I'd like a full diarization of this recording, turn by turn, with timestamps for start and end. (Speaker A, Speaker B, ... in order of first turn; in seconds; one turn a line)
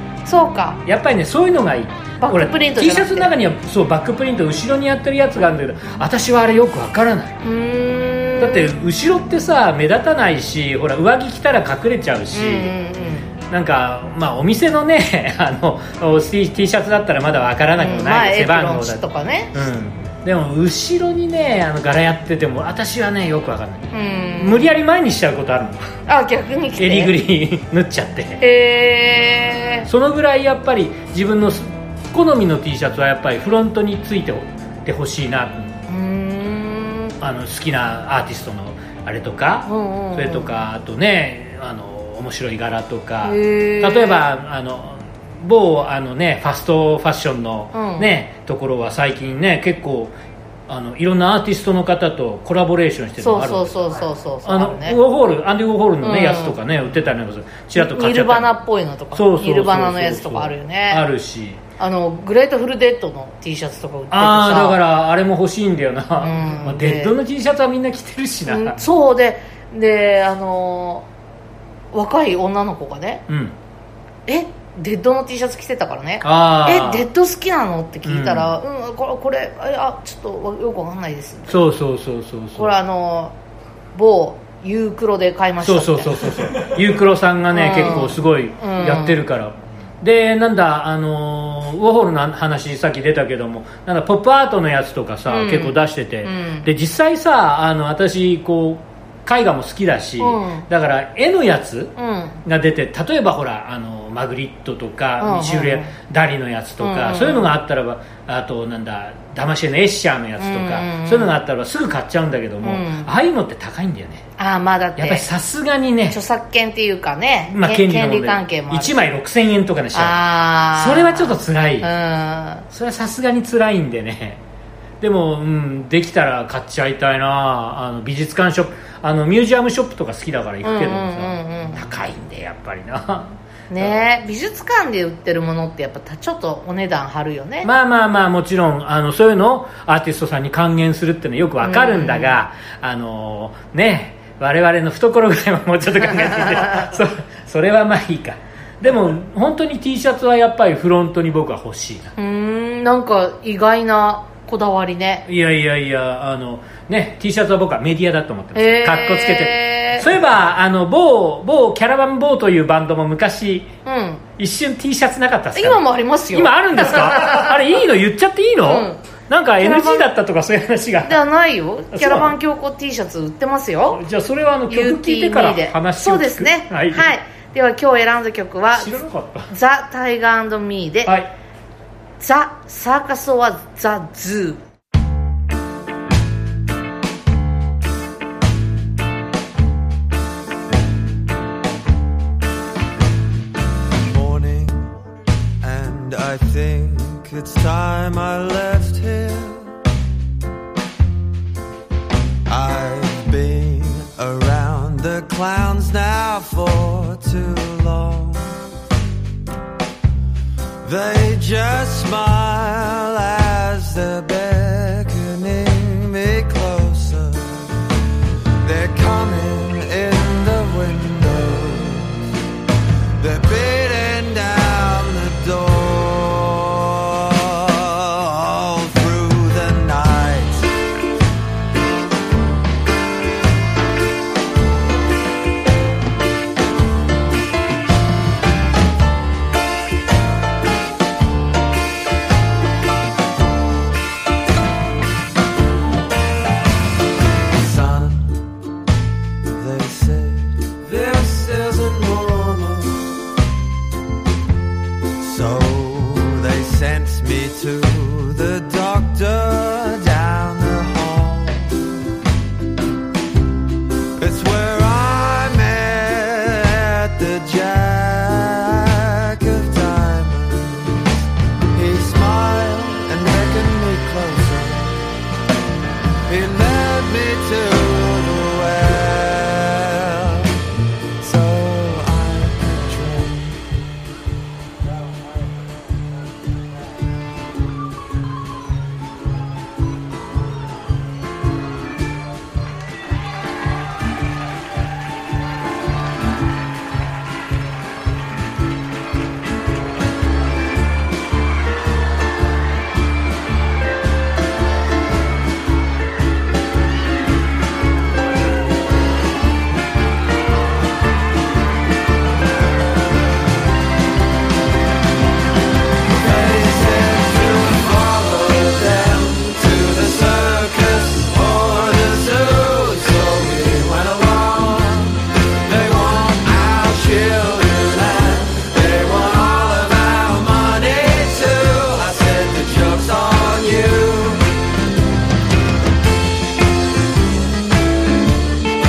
Speaker A: 0.2-0.8
Speaker B: 0.8-7.4
Speaker A: 2.2-3.3
Speaker A: 7.4-8.7
Speaker B: 8.4-12.7
Speaker A: 12.3-13.3
Speaker B: 13.5-25.9
Speaker A: 17.8-19.6
Speaker A: 23.9-24.6
Speaker A: 26.1-27.1
Speaker B: 26.8-28.4
Speaker A: 28.4-29.9
Speaker B: 29.9-35.8
Speaker A: 35.9-37.1
Speaker B: 37.2-50.1
Speaker A: 39.6-40.5
Speaker A: 43.2-44.3
Speaker A: 47.7-48.1
Speaker B: 50.7-58.5
Speaker A: 53.2-55.0
Speaker A: 56.0-56.6
Speaker A: 57.7-61.0
Speaker B: 59.1-61.6
Speaker A: 61.8-64.8
Speaker B: 64.1-68.8
Speaker A: 66.2-67.1
Speaker A: 68.5-71.0
Speaker A: 71.9-73.2
Speaker B: 73.3-73.5
Speaker A: 74.3-81.6
Speaker B: 76.2-77.1
Speaker B: 78.0-78.5
Speaker B: 81.5-82.7
Speaker A: 82.5-83.3
Speaker A: 83.9-86.3
Speaker B: 85.6-101.9
Speaker A: 87.5-89.2
Speaker A: 95.3-96.7
Speaker A: 100.2-100.7
Speaker A: 102.0-102.4
Speaker B: 102.4-114.2
Speaker A: 105.2-105.9
Speaker A: 106.8-107.5
Speaker A: 110.4-111.3
Speaker A: 112.6-113.1
Speaker A: 114.4-115.3
Speaker B: 115.0-116.2
Speaker A: 116.1-119.0
Speaker B: 117.5-120.2
Speaker A: 119.9-122.7
Speaker B: 120.7-121.9
Speaker B: 122.7-124.4
Speaker B: 125.0-134.0
Speaker A: 130.6-131.8
Speaker A: 133.7-137.7
Speaker B: 137.6-152.1
Speaker A: 141.6-142.3
Speaker A: 146.3-146.9
Speaker A: 152.2-155.2
Speaker B: 155.3-163.7
Speaker A: 158.5-160.1
Speaker A: 163.8-164.2
Speaker B: 164.4-171.2
Speaker A: 165.5-167.6
Speaker A: 168.6-169.0
Speaker A: 169.6-170.1
Speaker A: 171.0-174.0
Speaker B: 171.9-172.3
Speaker B: 173.9-177.1
Speaker A: 174.7-181.2
Speaker B: 178.8-179.5
Speaker A: 182.2-184.6
Speaker C: 194.0-194.9
Speaker C: 195.6-199.8
Speaker C: 202.5-208.6
Speaker C: 210.8-217.9
Speaker C: 218.6-222.4
Speaker C: 223.2-230.8
Speaker C: 247.5-248.4
Speaker C: 249.5-253.2
Speaker C: 255.2-262.1
Speaker C: 264.2-275.1
Speaker C: 276.2-280.7
Speaker C: 281.2-284.0
Speaker C: 316.1-334.5